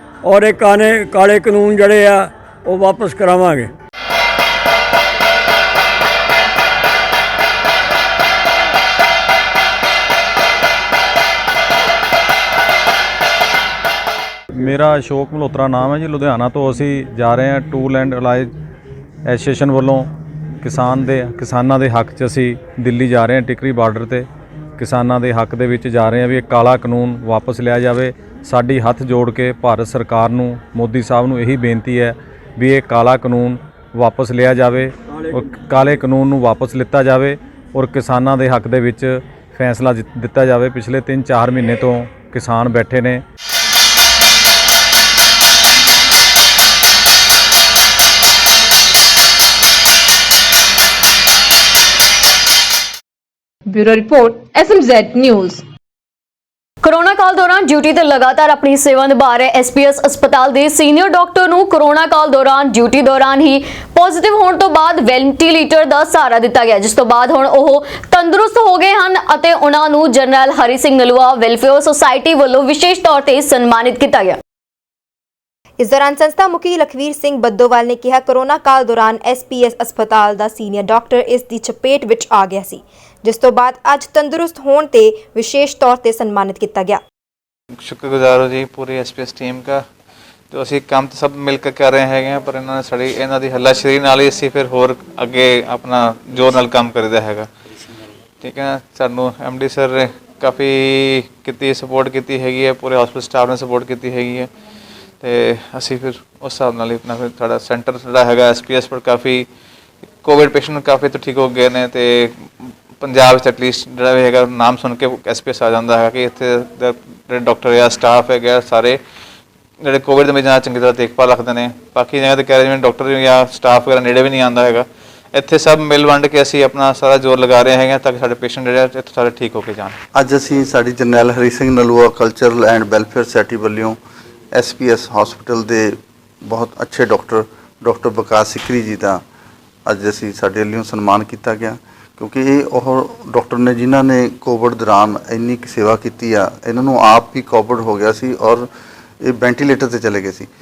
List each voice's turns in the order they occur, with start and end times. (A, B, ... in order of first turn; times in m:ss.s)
0:00.2-0:03.7 A
0:14.5-0:18.5 B
0:19.2-0:20.1 B
0:20.6-0:24.2 B
0:24.8-0:43.2 B
0:53.7-0:55.6 C
0:56.8-1:14.4 D
1:15.8-1:27.0 E
1:27.8-1:29.8 F
1:30.5-1:37.5 F
1:38.4-1:44.5 F
1:45.2-1:49.5 F
1:50.2-1:52.4 F
1:53.0-1:59.0 F
1:59.8-2:10.0 F
2:10.1-2:14.0 G
2:14.5-2:15.9 G
2:16.4-2:19.2 G
2:19.8-2:28.7 G
2:29.2-2:30.5 G